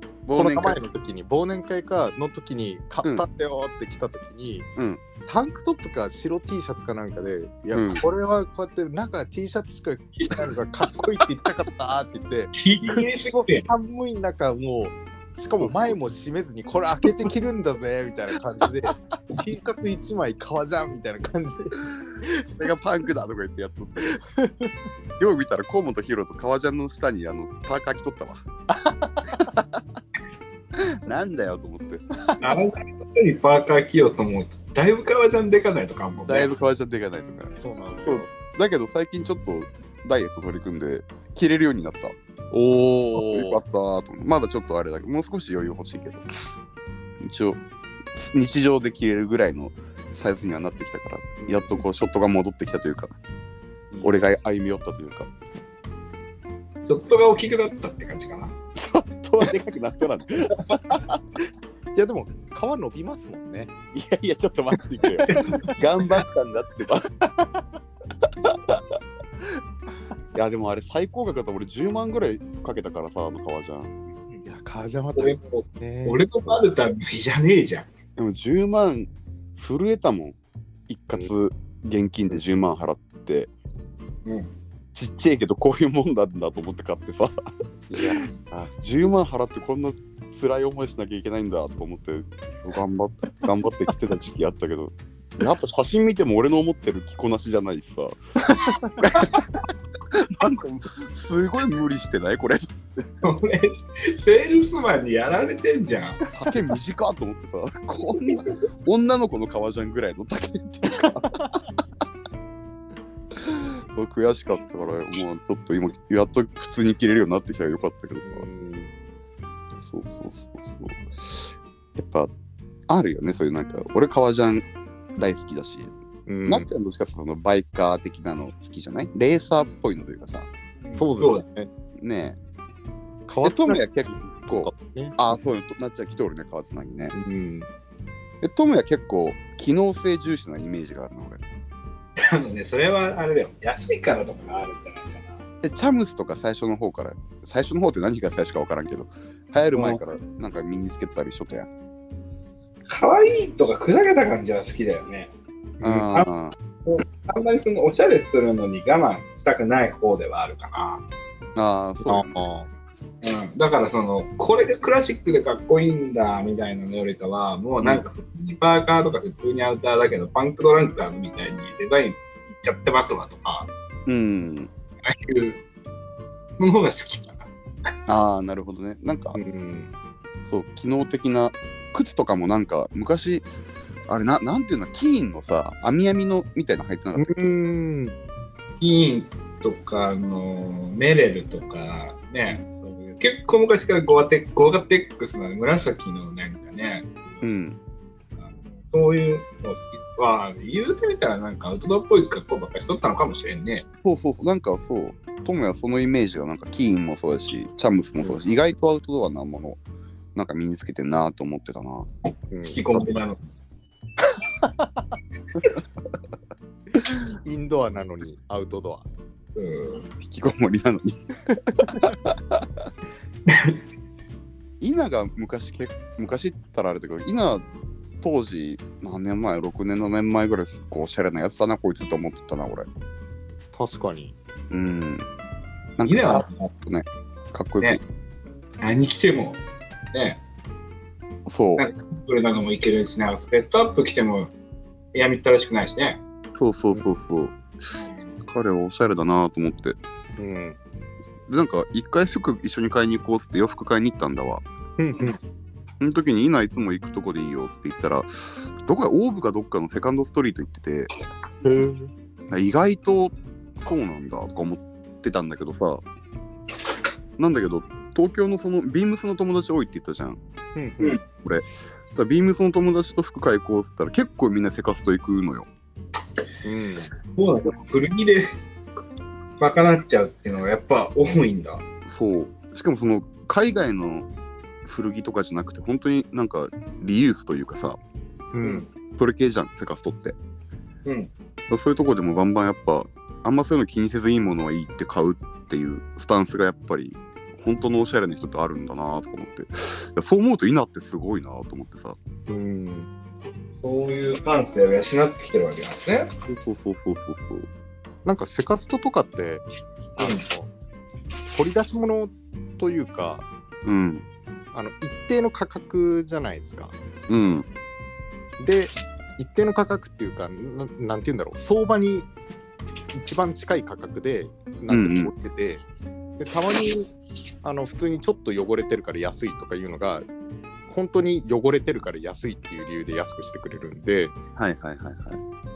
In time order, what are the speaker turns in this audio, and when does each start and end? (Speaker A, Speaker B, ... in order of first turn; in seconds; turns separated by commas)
Speaker A: 0.3-0.8, Speaker B: 0.3-4.7, Speaker A: 4.8-5.0, Speaker B: 5.3-22.5, Speaker A: 7.7-8.1, Speaker C: 12.6-13.7, Speaker A: 15.6-16.0, Speaker A: 22.6-24.2, Speaker B: 24.1-24.7, Speaker A: 25.2-28.4, Speaker B: 28.7-29.5, Speaker A: 29.3-29.8, Speaker A: 30.8-32.0, Speaker C: 32.4-36.5, Speaker A: 36.3-42.1, Speaker B: 37.6-38.3, Speaker B: 42.5-43.6, Speaker A: 43.1-46.3, Speaker A: 47.2-47.6, Speaker A: 48.1-53.1, Speaker B: 51.4-51.8, Speaker B: 53.9-54.3, Speaker A: 54.0-55.3, Speaker C: 56.9-58.5, Speaker A: 58.8-61.2, Speaker B: 62.0-63.7, Speaker A: 63.9-67.1, Speaker C: 65.3-65.7, Speaker B: 67.4-67.6, Speaker A: 68.3-68.9, Speaker A: 70.3-73.9, Speaker B: 74.5-76.2, Speaker C: 75.2-77.9, Speaker A: 78.2-80.4, Speaker A: 80.9-83.5, Speaker C: 84.2-84.5, Speaker A: 84.9-87.4, Speaker B: 87.9-88.3, Speaker A: 87.9-98.2, Speaker B: 98.5-99.0, Speaker A: 99.0-99.3, Speaker A: 100.1-102.7, Speaker C: 103.2-106.2, Speaker A: 106.3-111.6, Speaker A: 113.3-118.5, Speaker B: 118.2-118.9, Speaker A: 119.8-121.1, Speaker A: 122.0-122.3, Speaker A: 122.9-125.9, Speaker B: 126.3-126.7, Speaker A: 126.5-130.5, Speaker C: 130.8-131.4, Speaker B: 131.0-131.7, Speaker A: 132.0-132.4, Speaker B: 133.3-135.2, Speaker A: 133.4-137.1, Speaker B: 137.1-137.7, Speaker A: 138.4-141.4, Speaker C: 142.2-145.4, Speaker A: 145.6-151.7, Speaker C: 149.7-150.0, Speaker C: 152.9-155.3, Speaker B: 155.8-156.1, Speaker A: 155.8-156.6, Speaker C: 156.8-161.0, Speaker A: 161.6-162.4, Speaker B: 162.1-162.7, Speaker C: 163.2-173.7, Speaker A: 174.1-174.7, Speaker C: 175.0-175.6, Speaker C: 176.6-177.5, Speaker A: 178.1-179.4, Speaker B: 179.3-179.9, Speaker A: 180.5-183.4, Speaker A: 184.1-187.5, Speaker B: 187.2-188.1, Speaker C: 188.8-197.5, Speaker A: 197.4-197.8, Speaker C: 198.4-203.8, Speaker A: 204.0-209.8, Speaker B: 208.2-208.5, Speaker A: 210.3-212.1, Speaker B: 212.5-212.8, Speaker C: 212.7-213.4, Speaker B: 214.6-215.0, Speaker B: 217.4-219.1, Speaker C: 219.6-220.1, Speaker A: 220.2-221.2, Speaker A: 221.8-222.9, Speaker B: 221.8-222.1, Speaker C: 223.5-223.8, Speaker A: 224.8-227.7, Speaker A: 228.2-232.9, Speaker B: 233.7-234.3, Speaker A: 234.7-235.3, Speaker A: 236.0-238.0, Speaker C: 236.1-236.7, Speaker C: 238.8-239.6, Speaker C: 240.1-240.4, Speaker A: 241.5-241.8, Speaker C: 241.8-244.5, Speaker C: 245.1-246.2, Speaker A: 246.6-247.6, Speaker A: 248.5-250.0, Speaker B: 250.4-250.8, Speaker A: 251.5-254.6, Speaker B: 255.0-255.4, Speaker A: 256.0-261.1, Speaker B: 261.6-262.1, Speaker A: 262.5-266.0, Speaker A: 267.4-270.4, Speaker B: 270.8-271.2, Speaker A: 271.4-275.7, Speaker B: 276.6-277.1, Speaker C: 277.3-278.5, Speaker C: 279.6-281.8, Speaker A: 282.1-284.3, Speaker A: 284.9-288.0, Speaker B: 288.5-288.9, Speaker A: 289.2-290.4, Speaker C: 291.1-291.3, Speaker A: 291.7-302.2, Speaker B: 302.5-303.1, Speaker C: 303.8-306.3, Speaker A: 306.5-307.7, Speaker B: 308.2-309.6, Speaker C: 310.2-310.4, Speaker B: 310.2-310.7, Speaker B: 311.5-313.5, Speaker A: 313.8-314.2, Speaker B: 314.7-316.9, Speaker A: 317.3-317.7, Speaker B: 318.6-322.3, Speaker B: 323.1-325.8, Speaker A: 324.9-325.3, Speaker B: 326.4-330.3, Speaker B: 330.9-334.4, Speaker A: 334.6-335.4